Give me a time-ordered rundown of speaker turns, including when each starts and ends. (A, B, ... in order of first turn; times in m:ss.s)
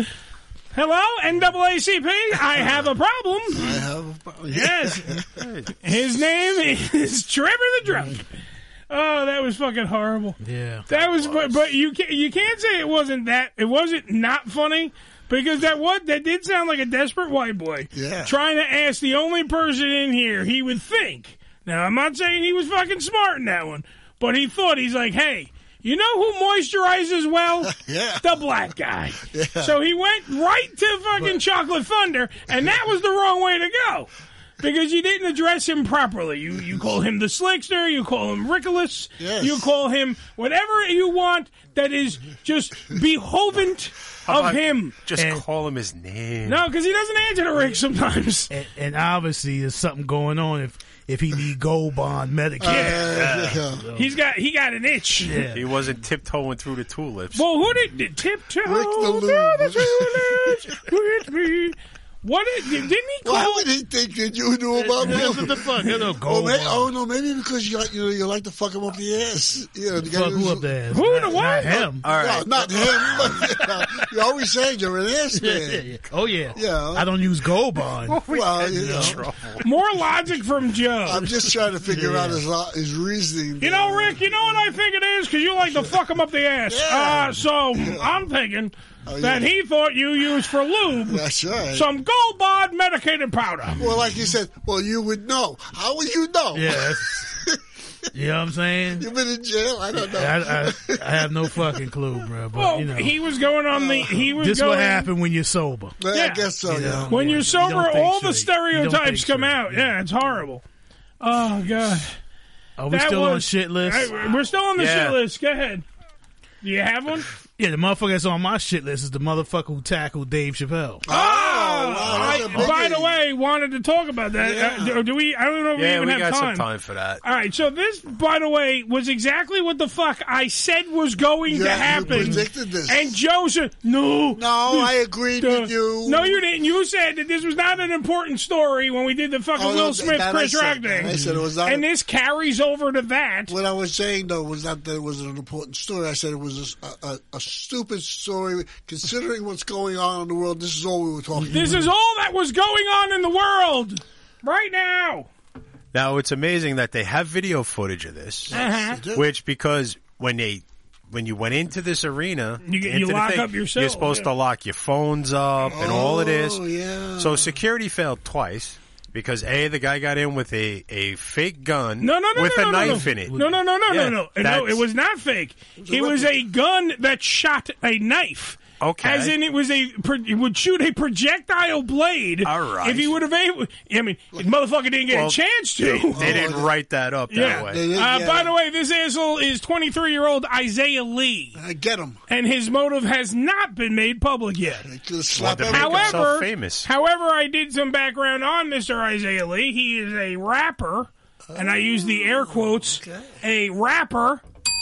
0:00.7-0:03.8 A
0:03.6-0:05.4 B
0:04.5-0:05.1 A
0:05.4-0:05.7 C
0:05.8-0:08.2 A
0:08.9-0:34.1 A
0:10.4-0:10.8 D
0:10.9-0:11.6 C
0:17.9-0:18.3 B
0:27.7-0:28.3 B
0:29.3-0:29.8 B
0:34.6-0:45.0 A
0:39.2-0:39.7 B
0:44.3-0:46.6 C
0:45.2-0:45.4 D
0:46.5-0:48.5 A
0:48.5-0:54.1 D
0:52.6-0:53.8 B
0:52.7-0:53.1 A
0:53.1-0:53.5 C
0:53.9-0:55.4 A
0:55.2-0:55.6 D
0:55.5-0:57.4 C
0:57.3-1:03.6 A
0:58.7-1:00.7 B
1:03.2-1:10.7 B
1:04.9-1:06.9 D
1:10.1-1:12.1 D
1:10.9-1:11.8 A
1:11.7-1:15.9 B
1:12.0-1:13.5 C
1:15.4-1:19.2 D
1:16.6-1:17.1 B
1:18.1-1:19.6 C
1:18.3-1:19.2 B
1:19.6-1:21.3 A
1:21.1-1:24.4 B
1:21.9-1:22.4 D
1:23.6-1:31.2 A
1:26.7-1:28.1 B
1:29.1-1:29.5 B
1:31.1-1:31.9 B
1:31.7-1:33.9 A
1:33.8-1:37.6 B
1:36.5-1:37.3 D
1:38.1-1:39.1 D
1:39.0-1:41.7 B
1:40.1-1:43.2 D
1:42.5-1:45.1 A
1:43.8-1:44.3 B
1:44.3-1:46.0 D
1:46.0-1:47.3 B
1:46.1-1:46.5 A
1:46.6-1:49.9 D
1:47.1-1:50.6 A
1:51.2-1:52.2 A
1:52.8-1:54.1 D
1:52.9-1:55.8 A
1:54.8-1:55.2 C
1:56.6-1:57.3 A
1:57.6-2:01.1 D
2:01.1-2:03.2 B
2:01.1-2:06.6 A
2:02.1-2:02.6 C
2:04.4-2:05.0 B
2:05.8-2:07.2 C
2:07.2-2:23.5 A
2:11.5-2:13.1 B
2:11.9-2:12.4 D
2:14.4-2:16.4 B
2:19.6-2:21.8 B
2:23.5-2:31.8 B
2:31.5-2:35.3 A
2:35.9-2:38.5 C
2:38.5-2:39.3 B
2:38.5-2:39.0 A
2:39.1-2:46.6 C
2:42.6-2:44.3 A
2:45.7-2:47.5 B
2:47.2-2:54.8 C
2:52.0-3:06.4 A
2:55.8-2:56.4 B
2:58.8-2:59.4 C
3:02.4-3:03.2 C
3:05.1-3:05.4 C
3:06.1-3:06.7 B
3:06.2-3:07.8 C
3:07.3-3:11.6 A
3:07.4-3:08.5 B
3:11.6-3:12.2 B
3:12.3-3:14.8 A
3:14.8-3:16.3 B
3:15.4-3:16.9 C
3:15.7-3:24.4 A
3:21.5-3:23.3 B